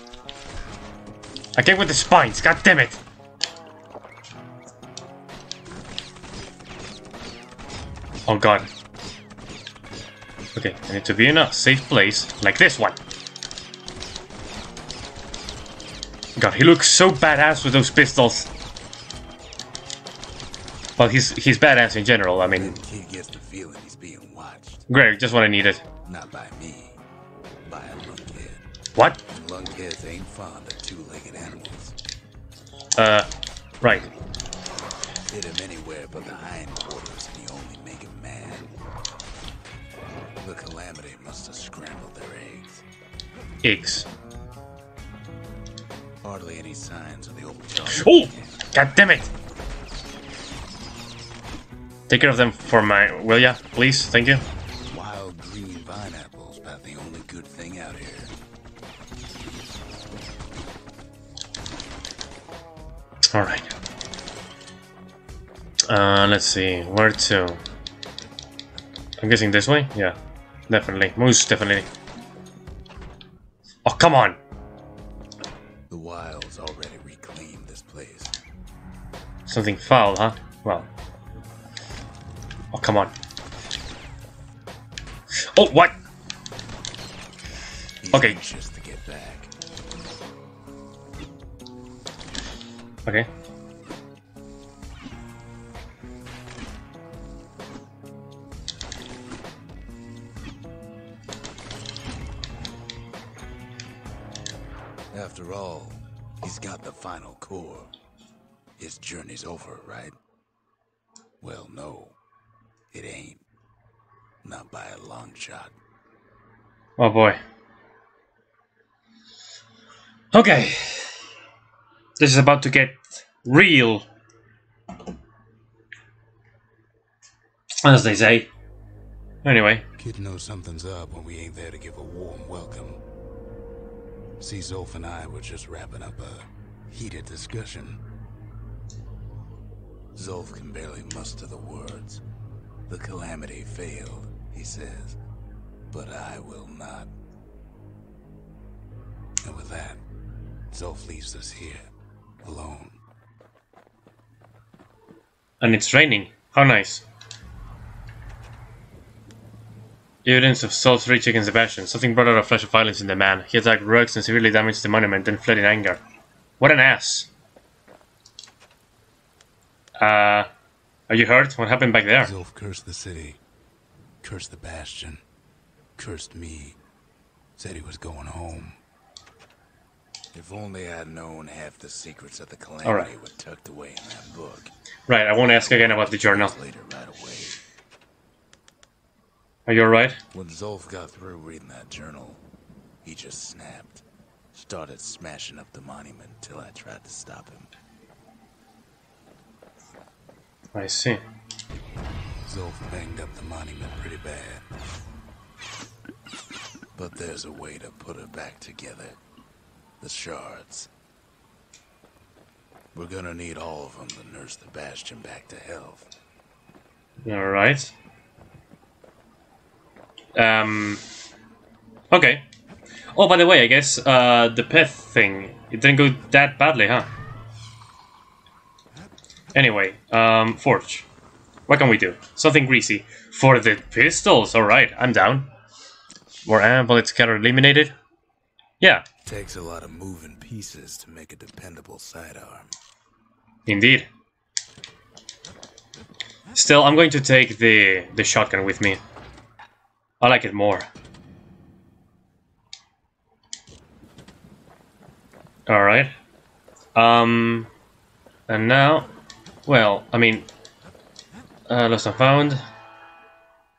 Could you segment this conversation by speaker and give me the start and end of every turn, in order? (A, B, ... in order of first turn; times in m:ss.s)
0:01.6-0:03.0 A
0:08.2-0:08.7 A
0:10.5-0:13.0 A
0:16.4-0:18.5 A
0:21.0-0:22.7 A
0:22.5-0:24.8 B
0:24.9-0:25.8 A
0:26.0-0:27.0 B
0:27.6-0:28.6 B
0:29.3-0:32.0 B
0:33.0-0:33.3 A
0:33.8-0:34.1 A
0:35.3-0:38.7 B
0:40.4-0:42.8 B
0:43.6-0:44.1 A
0:46.2-0:48.6 B
0:47.9-0:49.3 A
0:52.1-0:54.4 A
0:54.9-0:58.3 B
1:03.3-1:03.7 A
1:05.9-1:07.6 A
1:09.2-1:10.2 A
1:10.7-1:11.9 A
1:13.8-1:14.4 A
1:15.9-1:18.3 B
1:19.5-1:20.9 A
1:22.7-1:23.1 A
1:25.3-1:26.0 A
1:28.0-1:29.5 B
1:28.1-1:28.4 A
1:45.1-1:47.9 B
1:48.8-1:50.2 B
1:51.4-1:52.2 B
1:52.9-1:53.4 B
1:54.4-1:55.8 B
1:57.0-1:57.4 A
2:00.3-2:01.1 A
2:02.2-2:04.0 A
2:07.8-2:08.5 A
2:09.4-2:09.8 A
2:10.0-2:13.0 B
2:14.4-2:18.0 B
2:20.2-2:22.2 B
2:22.9-2:25.2 B
2:25.9-2:27.1 B
2:29.4-2:30.0 B
2:30.7-2:31.9 B
2:32.4-2:33.0 B
2:35.6-2:37.0 A
2:40.2-2:46.0 A
2:46.6-2:47.3 A
2:50.0-2:50.5 A
2:51.1-2:52.3 A
2:52.2-2:53.4 B
2:54.2-2:55.2 B
2:56.0-2:56.8 B
2:57.6-2:58.8 B
3:00.3-3:04.7 B
3:02.8-3:03.1 A
3:05.1-3:06.5 A
3:05.4-3:07.6 B
3:09.6-3:10.2 A
3:10.3-3:12.4 B
3:13.0-3:17.7 B
3:20.7-3:21.2 A
3:22.4-3:24.6 B
3:26.9-3:29.2 B
3:30.0-3:30.9 B
3:32.9-3:36.1 B
3:37.2-3:37.9 A
3:40.3-3:41.0 A
3:42.1-3:42.4 A
3:43.1-3:47.1 A
3:49.5-3:51.1 A
3:51.7-3:55.5 A
3:56.4-3:57.9 A
3:58.8-3:59.0 A
3:59.2-4:02.7 B
4:03.6-4:04.1 A
4:06.5-4:09.0 A
4:10.2-4:10.9 A
4:15.7-4:16.2 A
4:16.9-4:17.7 A
4:18.5-4:19.1 A
4:19.6-4:20.5 A
4:21.7-4:22.6 A